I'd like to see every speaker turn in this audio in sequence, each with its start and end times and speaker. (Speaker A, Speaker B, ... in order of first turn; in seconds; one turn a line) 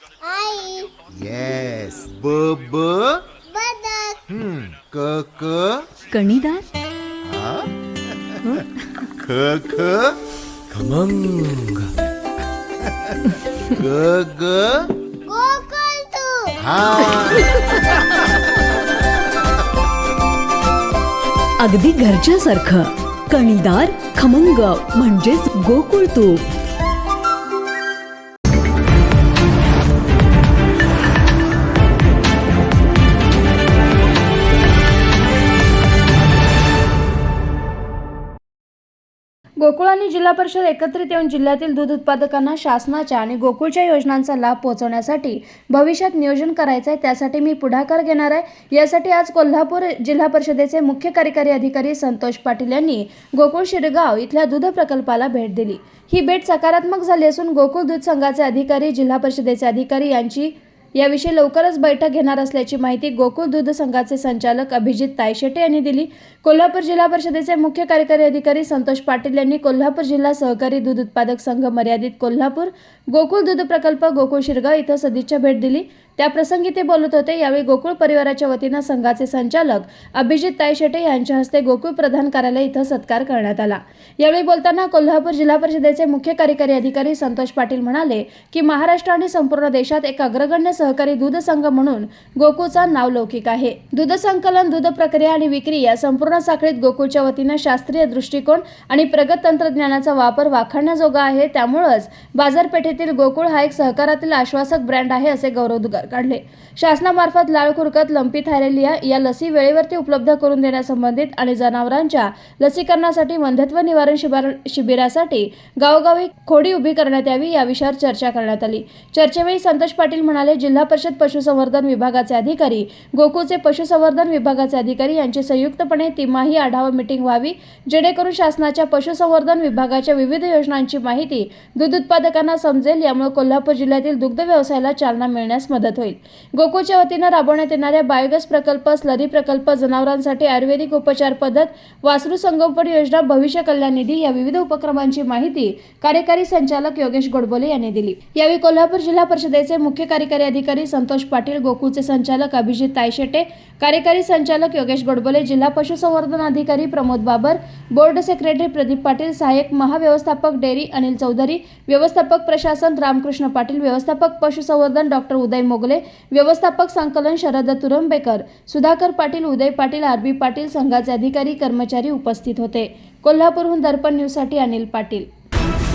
Speaker A: 0.2-0.9
Speaker B: 1.1-3.2
Speaker A: 3.5-4.2
Speaker B: 4.3-5.9
Speaker C: 6.1-6.7
Speaker B: 7.3-8.6
Speaker B: 9.2-10.2
Speaker B: 10.7-11.9
Speaker B: 12.8-14.9
Speaker A: 15.2-16.6
Speaker B: 16.6-18.2
Speaker C: 21.6-26.4
Speaker D: 39.6-175.3